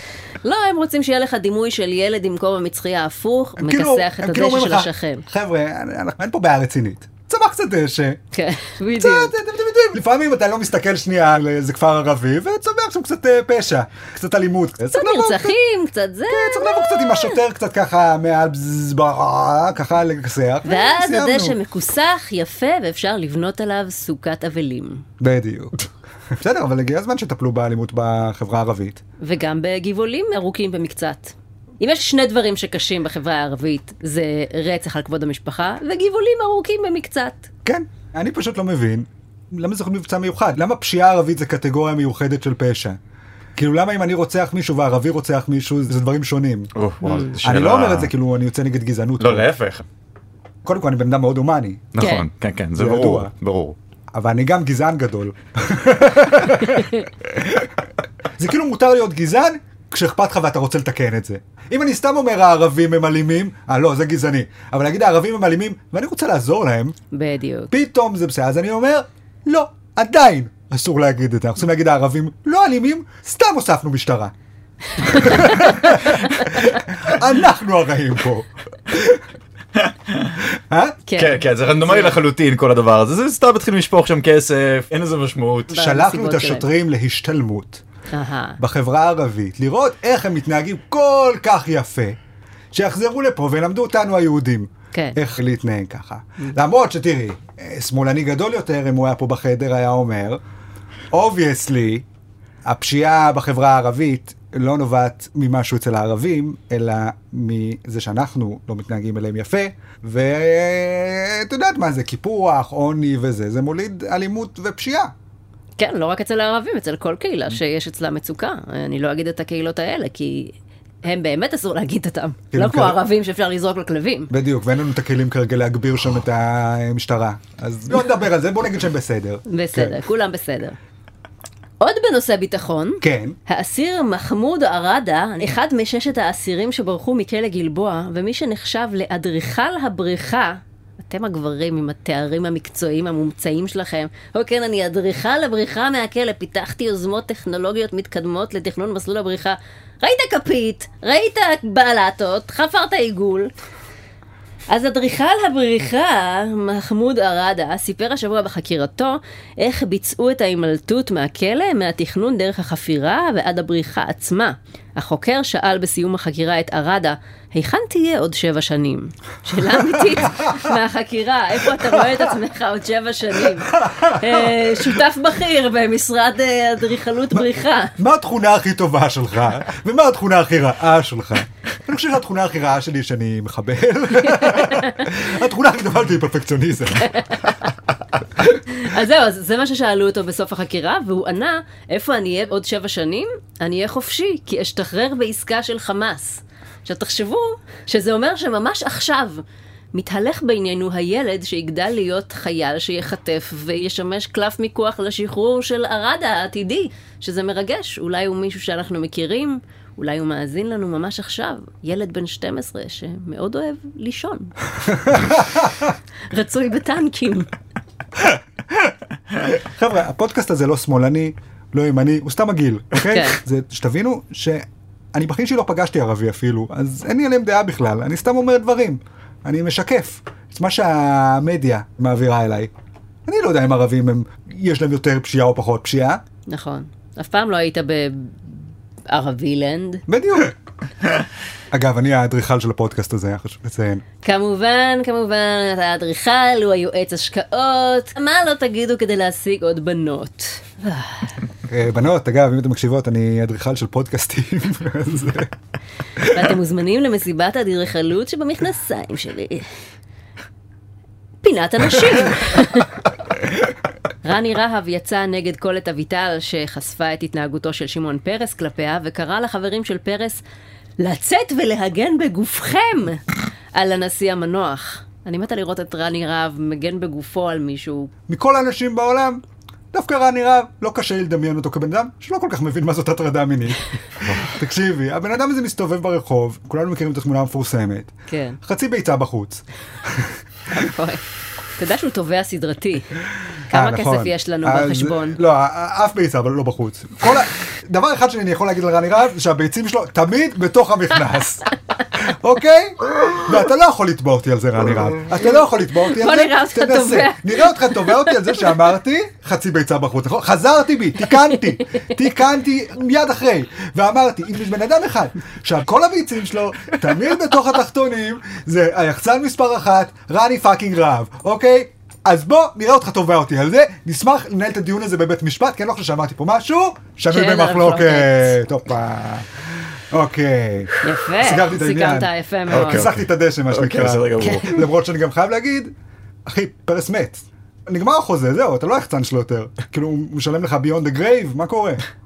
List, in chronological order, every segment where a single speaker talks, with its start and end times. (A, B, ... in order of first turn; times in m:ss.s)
0:00.4-0:05.3 A
0:03.6-0:08.2 B
0:08.3-0:09.3 A
0:09.0-0:15.6 B
0:14.9-0:17.4 A
0:16.3-0:21.6 B
0:20.6-0:25.0 A
0:25.2-0:29.0 B
0:29.2-0:37.5 A
0:37.6-0:43.0 B
0:43.6-0:46.7 B
0:46.8-0:48.1 C
0:47.0-0:47.4 A
0:47.4-0:49.5 B
0:49.2-0:49.8 C
0:50.6-0:52.0 B
0:51.9-0:53.8 C
0:52.0-0:52.2 A
0:52.8-0:53.3 B
0:54.1-0:57.8 B
0:56.8-0:57.0 A
0:58.4-1:07.0 B
1:07.1-1:07.7 A
1:07.7-1:14.3 B
1:15.0-1:16.7 A
1:15.0-1:19.2 B
1:19.8-1:20.4 C
1:20.7-1:21.0 B
1:21.1-1:22.2 A
1:21.2-1:25.7 C
1:25.7-1:26.7 A
1:25.7-1:27.8 B
1:28.1-1:28.6 A
1:28.6-1:32.2 B
1:32.7-1:40.4 B
1:41.1-1:42.1 B
1:42.6-1:55.1 B
1:55.8-2:04.3 A
2:02.5-2:03.0 B
2:04.3-2:10.0 B
2:09.5-2:10.8 A
2:11.8-2:33.5 A
2:13.0-2:13.4 B
2:34.7-2:58.0 A
2:49.7-2:50.7 B
2:51.8-2:52.3 B
2:53.4-2:55.0 B
2:57.3-3:07.2 B
3:04.2-3:05.1 A
3:07.0-3:07.7 A
3:08.7-3:34.5 A
3:34.9-3:35.9 B
3:36.3-3:37.5 A
3:38.2-3:52.7 B
3:43.0-3:43.4 A
3:53.3-3:56.2 B
3:56.5-4:00.0 A
4:00.1-4:00.6 B
4:01.7-4:04.0 B
4:04.2-4:11.4 A
4:11.7-4:15.5 B
4:16.2-4:19.7 A
4:21.4-4:23.0 A
4:24.2-4:30.4 A
4:31.0-4:33.2 A
4:33.8-4:38.1 A
4:38.3-4:39.4 B
4:39.9-4:48.1 B
4:44.2-4:44.5 C
4:48.3-4:48.6 A
4:48.6-4:50.4 B
4:50.7-4:51.2 A
4:51.8-4:55.4 A
4:53.7-5:29.5 B
5:06.0-5:08.3 A
5:27.3-5:28.6 A
5:30.1-5:35.9 B
5:31.0-5:33.1 A
5:32.7-5:34.8 C
5:34.4-5:34.8 A
5:36.5-5:42.0 B